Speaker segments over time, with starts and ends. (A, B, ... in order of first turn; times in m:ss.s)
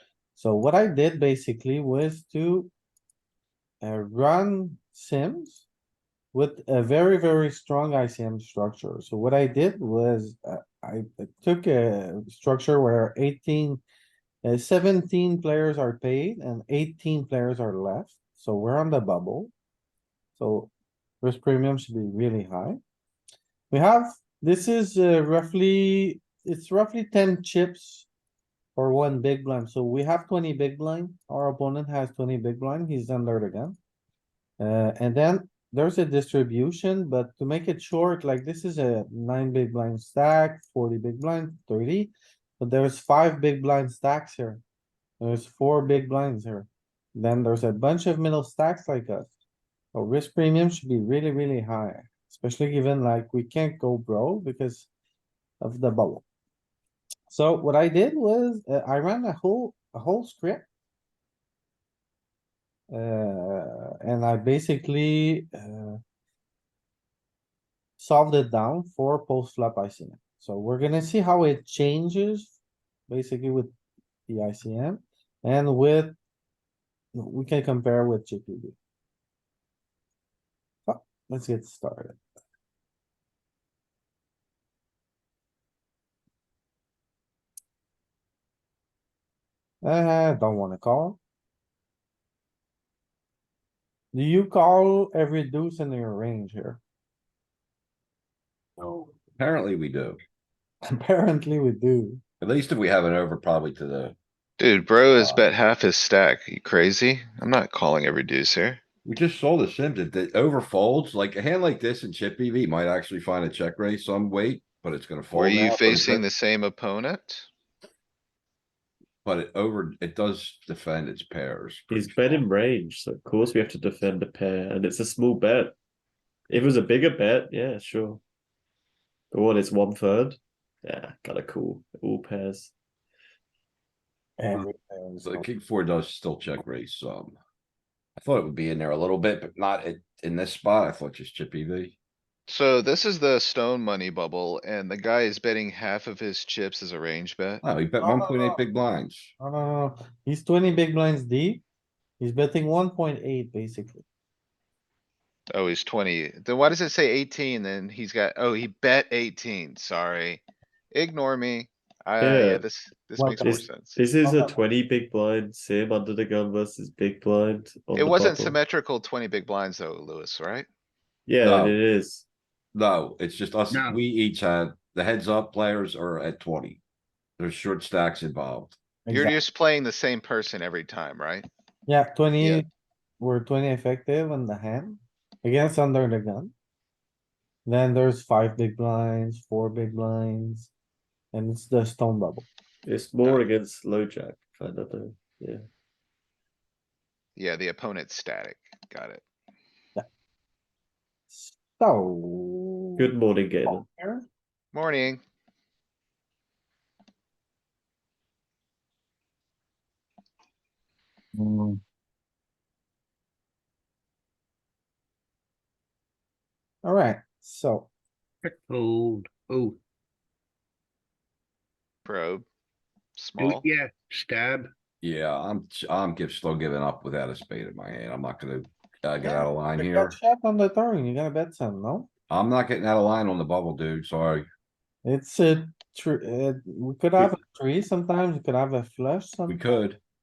0:00.4-0:02.7 A
0:03.8-0:05.7 A
0:06.3-0:13.8 A
0:14.4-0:19.5 A
0:20.4-0:22.8 A
0:23.7-0:28.1 A
0:28.8-0:33.8 A
0:34.6-0:44.6 A
0:45.2-0:49.4 A
0:49.9-0:54.9 A
0:55.6-0:56.2 A
0:57.3-1:00.7 A
1:02.9-1:06.0 A
1:08.0-1:12.6 A
1:13.1-1:13.7 A
1:14.3-1:16.2 A
1:17.2-1:18.8 A
1:20.9-1:22.2 A
1:29.8-1:31.2 A
1:34.1-1:36.8 A
1:38.8-1:40.2 B
1:40.9-1:42.2 A
1:42.4-1:44.2 B
1:44.6-1:48.8 C
1:45.2-1:45.4 B
1:49.0-1:56.3 B
1:55.3-1:57.5 C
1:59.2-2:02.4 B
2:01.9-2:05.7 D
2:06.5-2:08.2 D
2:09.3-2:12.7 D
2:14.4-2:15.5 A
2:15.2-2:17.4 B
2:18.2-2:22.0 B
2:22.5-2:27.6 C
2:27.6-2:29.3 B
2:28.0-2:28.6 A
2:29.4-2:31.6 A
2:32.2-2:34.0 A
2:35.5-2:44.0 C
2:42.2-2:42.6 D
2:43.2-2:43.6 A
2:43.4-2:48.6 D
2:44.2-2:44.6 A
2:48.0-2:50.7 C
2:51.3-2:52.2 D
2:51.4-2:51.8 B
2:52.7-2:56.8 B
2:53.7-2:54.0 E
2:57.4-2:58.8 B
2:59.1-2:59.4 A
2:59.1-3:01.5 C
3:01.9-3:02.6 A
3:02.4-3:02.6 C
3:03.2-3:06.5 A
3:07.7-3:10.7 A
3:11.3-3:12.5 A
3:12.8-3:15.6 D
3:17.4-3:19.2 C
3:21.3-3:23.1 A
3:23.0-3:23.9 D
3:23.7-3:24.3 A
3:24.7-3:25.2 C
3:36.8-3:37.9 A
3:38.5-3:39.8 E
3:42.0-3:42.5 C
3:43.2-3:43.6 C
3:43.4-3:44.7 E
3:45.0-3:50.2 B
3:49.2-3:52.1 A
3:52.3-3:54.5 B
3:55.0-3:59.6 A
3:59.5-4:00.0 B